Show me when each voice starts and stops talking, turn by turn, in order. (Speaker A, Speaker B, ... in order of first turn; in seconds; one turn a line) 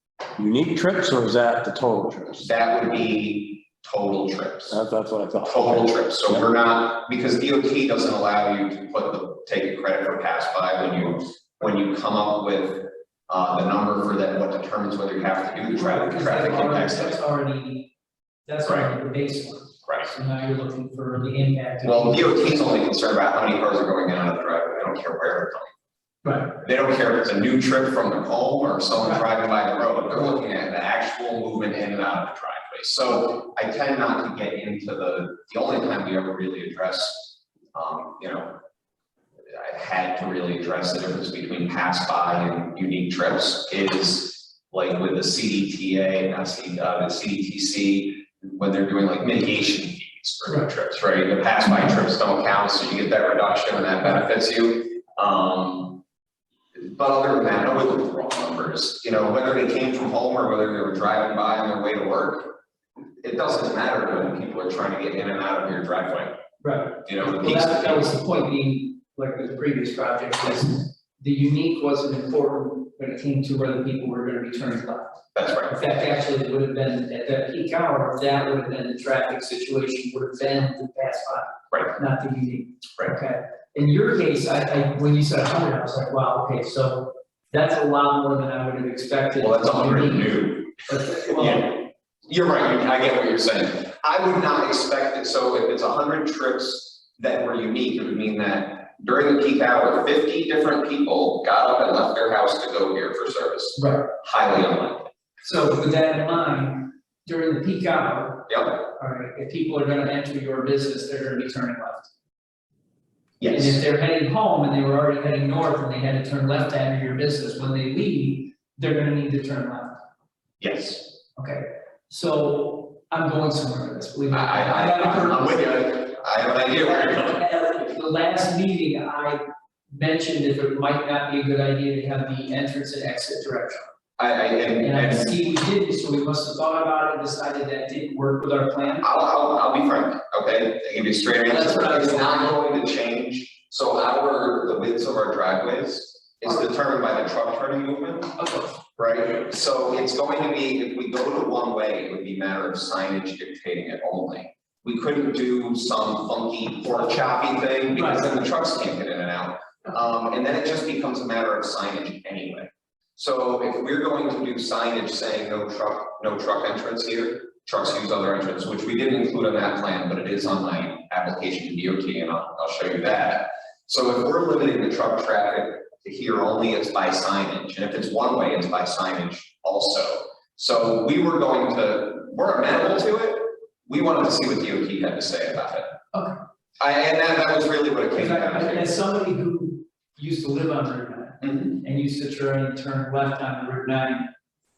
Speaker A: 0.4-2.5
Speaker B: 2.4-4.7
Speaker A: 4.7-6.5
Speaker B: 5.5-17.2
Speaker C: 15.7-17.9
Speaker C: 18.4-22.8
Speaker B: 21.8-25.7
Speaker C: 26.2-26.5
Speaker B: 26.6-38.5
Speaker B: 39.5-56.0
Speaker B: 56.8-62.5
Speaker B: 63.2-66.3
Speaker C: 66.6-91.8
Speaker B: 67.0-68.1
Speaker B: 75.3-75.8
Speaker B: 89.4-90.7
Speaker B: 91.3-105.1
Speaker C: 103.8-104.1
Speaker C: 105.4-112.1
Speaker B: 108.5-108.8
Speaker B: 113.4-113.8
Speaker C: 113.5-120.0
Speaker B: 120.6-121.1
Speaker C: 121.4-126.1
Speaker B: 124.3-127.4
Speaker C: 126.7-133.9
Speaker B: 134.2-135.3
Speaker C: 134.8-139.1
Speaker B: 139.0-148.3
Speaker C: 141.5-142.5
Speaker C: 148.4-148.7
Speaker B: 149.0-185.9
Speaker C: 157.9-158.2
Speaker B: 186.8-188.9
Speaker C: 188.2-194.3
Speaker B: 191.4-191.8